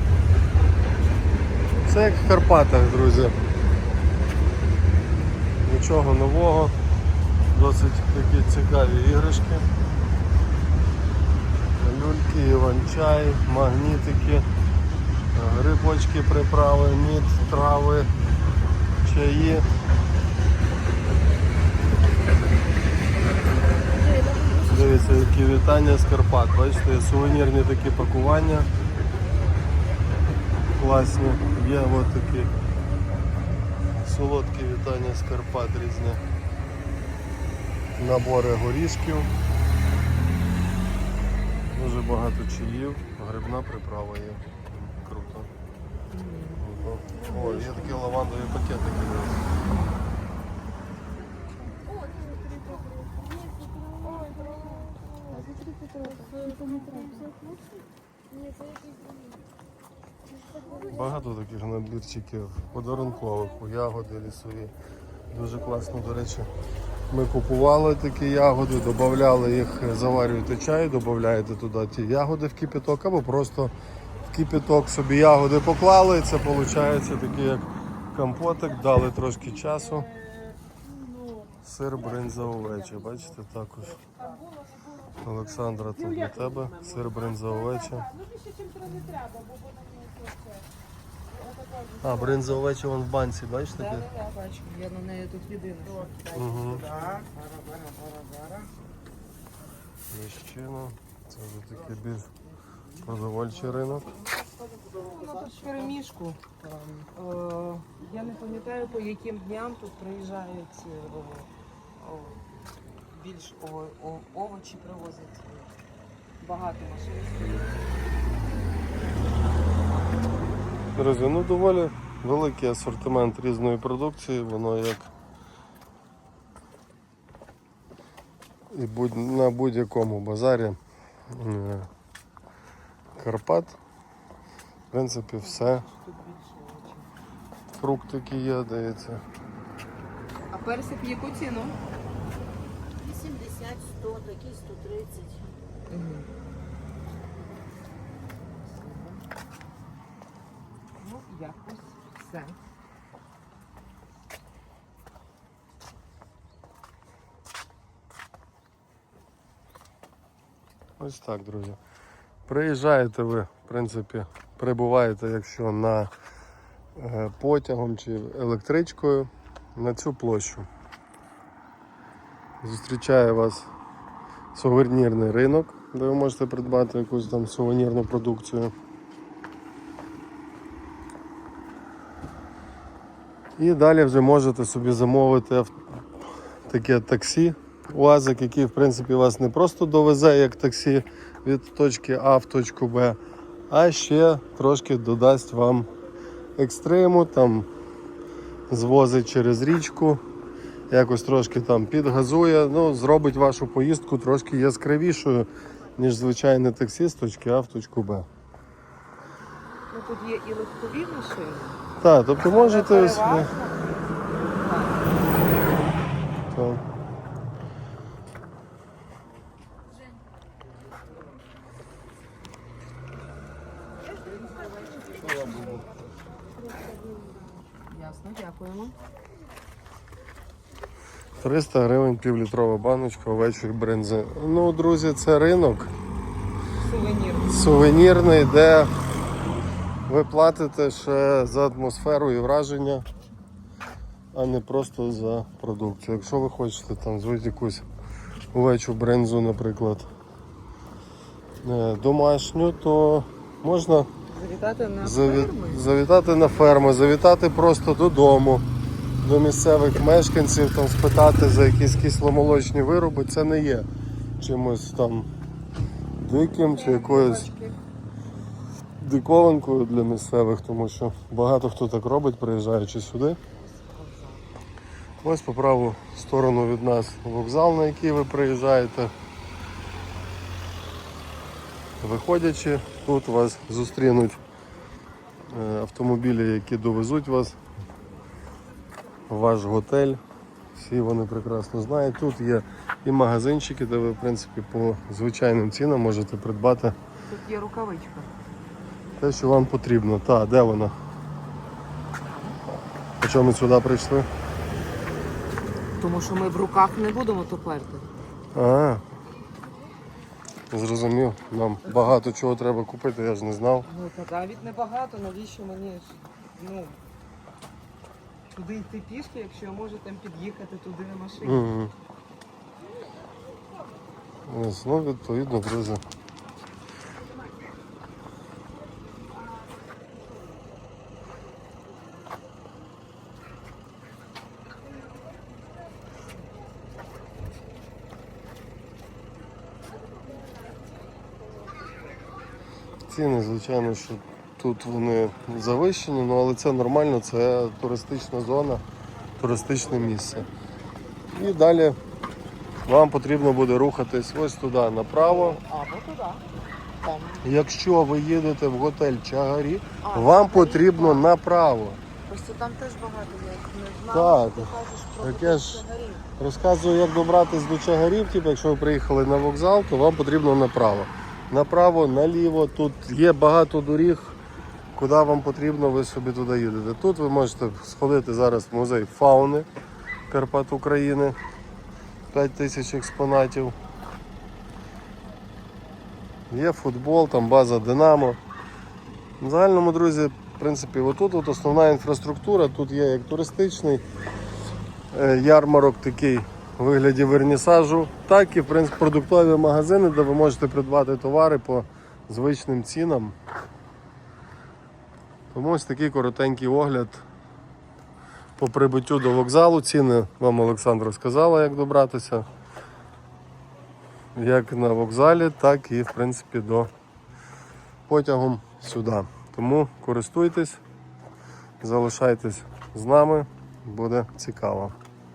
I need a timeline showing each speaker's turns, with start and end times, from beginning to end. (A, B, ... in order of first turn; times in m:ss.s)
0:01.9-0:03.3 A
0:05.6-0:06.7 A
0:07.5-0:09.7 A
0:11.8-0:14.4 A
0:15.3-0:18.1 A
0:19.0-0:19.6 A
0:24.6-0:28.7 A
0:30.8-0:32.5 A
0:34.0-0:36.2 A
0:38.0-0:39.3 A
0:41.7-0:45.5 A
0:46.1-0:46.6 B
0:46.6-0:49.4 A
0:47.1-0:48.1 B
0:49.7-0:50.0 B
0:54.1-0:57.3 B
1:00.8-1:04.7 A
1:05.3-1:06.5 A
1:07.1-1:13.7 A
1:14.3-1:20.1 A
1:21.6-1:24.0 A
1:22.0-1:23.3 B
1:24.0-1:24.4 B
1:25.2-1:28.1 A
1:26.0-1:26.5 B
1:28.1-1:30.6 B
1:29.9-1:30.4 C
1:31.3-1:32.6 B
1:32.0-1:34.1 A
1:33.7-1:38.7 B
1:36.3-1:36.9 A
1:40.1-1:42.3 A
1:43.0-1:44.1 A
1:44.8-1:52.4 B
1:53.1-1:55.7 B
1:56.4-1:57.8 B
2:01.0-2:05.1 A
2:08.7-2:10.8 A
2:11.3-2:11.9 A
2:13.2-2:13.8 A
2:14.9-2:15.8 A
2:15.4-2:17.1 B
2:17.7-2:19.2 A
2:20.5-2:21.8 B
2:23.0-2:25.4 C
2:25.9-2:26.3 B
2:28.6-2:29.2 B
2:31.0-2:32.6 B
2:41.0-2:41.8 A
2:42.5-2:46.1 A
2:47.0-2:50.7 A
2:52.6-2:53.7 A
2:54.5-2:58.7 A
3:03.6-3:05.8 A
3:06.7-3:13.2 A
3:13.7-3:15.9 A
3:16.6-3:17.7 A
3:18.7-3:20.2 A
3:20.9-3:28.3 A
3:29.9-3:31.8 B
3:32.0-3:33.5 A
3:32.4-3:35.3 B
3:36.5-3:36.8 A
3:44.8-3:45.6 B
3:47.8-3:48.9 B
3:51.4-3:55.9 A
3:56.8-3:57.8 B
3:57.5-3:58.9 A
4:00.1-4:03.0 A
4:04.3-4:07.8 A
4:08.5-4:10.1 A
4:11.6-4:14.1 A
4:14.3-4:15.8 B
4:15.0-4:18.6 A
4:19.2-4:23.9 A
4:24.4-4:25.3 A
4:26.2-4:27.5 A
4:26.7-4:27.8 B
4:29.0-4:33.4 A
4:33.6-4:34.5 B
4:35.2-4:39.1 A
4:42.0-4:44.4 A
4:45.5-4:47.6 A
4:49.3-4:50.2 A
4:50.7-4:57.0 A
4:57.3-4:58.3 B
4:59.2-5:00.9 A
5:02.2-5:02.6 B
5:03.2-5:04.3 A
5:06.0-5:08.0 B
5:08.5-5:09.0 A
5:10.7-5:13.9 A
5:13.8-5:17.0 B
5:18.5-5:21.7 B
5:21.4-5:21.9 A
5:24.4-5:26.0 A
5:43.1-5:48.8 A
5:49.4-5:50.5 A
5:51.3-5:52.0 A
5:52.8-5:55.6 A
5:55.1-5:56.4 B
5:57.0-5:57.5 B
5:57.4-6:02.0 A
6:00.0-6:01.3 B
6:02.3-6:06.2 B
6:04.1-6:05.8 A
6:06.4-6:14.4 A
6:14.9-6:19.7 A
6:20.3-6:21.4 A
6:22.3-6:23.8 A
6:26.5-6:28.4 A
6:29.4-6:34.0 A
6:35.1-6:43.3 A
6:45.5-6:47.2 A
6:48.6-6:52.4 A
6:54.3-6:56.9 A
6:58.1-7:00.8 A
7:01.8-7:04.9 A